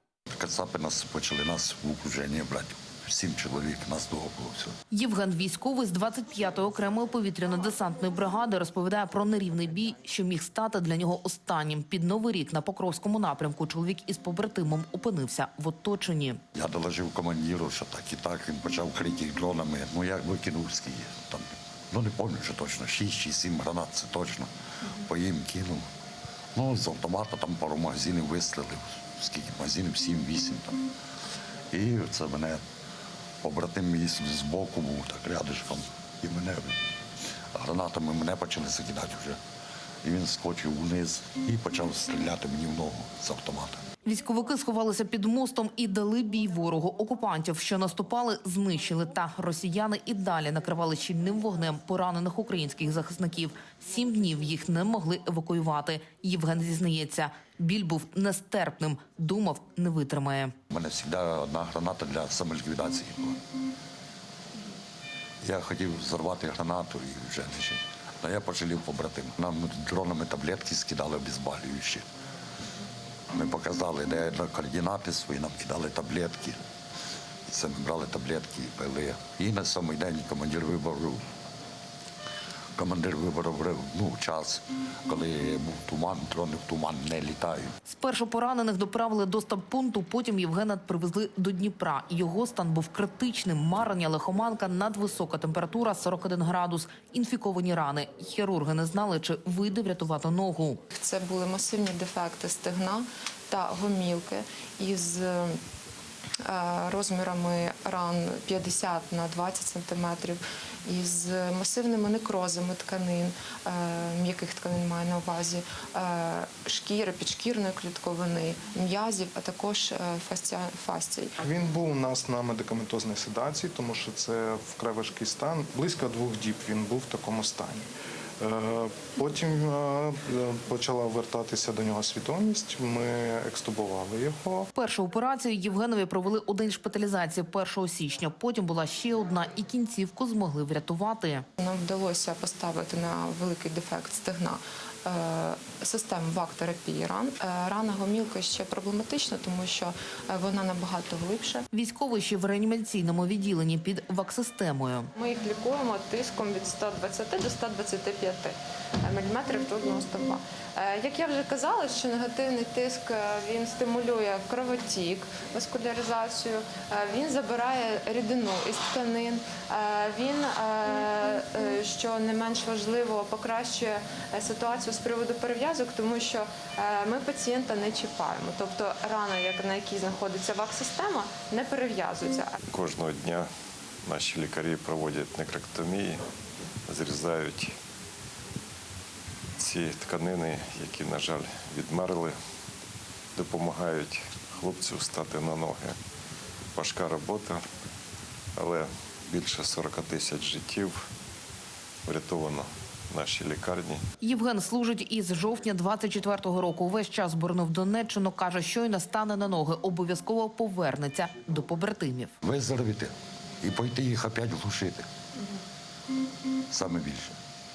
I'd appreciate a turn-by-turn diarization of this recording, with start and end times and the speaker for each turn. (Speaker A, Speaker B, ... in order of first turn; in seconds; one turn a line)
Speaker A: 0.3-4.8
Speaker B: 4.9-16.4
Speaker A: 16.5-24.5
Speaker A: 25.0-25.8
Speaker A: 26.5-30.8
Speaker A: 31.7-32.6
Speaker A: 33.4-36.8
Speaker A: 37.5-39.4
Speaker A: 40.0-43.8
Speaker B: 44.0-60.5
Speaker A: 60.7-63.4
Speaker A: 65.4-72.0
Speaker A: 73.3-76.6
Speaker A: 77.5-81.2
Speaker A: 82.8-87.7
Speaker B: 87.9-100.8
Speaker C: 100.9-105.6
Speaker C: 106.4-121.3
Speaker D: 121.4-127.8
Speaker D: 128.4-134.7
Speaker B: 134.7-141.4
Speaker C: 141.6-151.7
Speaker B: 151.7-155.1
Speaker C: 155.2-182.5
Speaker E: 182.7-183.5
Speaker E: 184.0-186.2
Speaker E: 186.9-187.8
Speaker E: 189.6-192.4
Speaker E: 193.3-196.0
Speaker E: 196.7-197.7
Speaker E: 198.5-201.1
Speaker E: 202.0-204.1
Speaker B: 204.2-212.3
Speaker A: 212.4-215.1
Speaker A: 216.7-217.3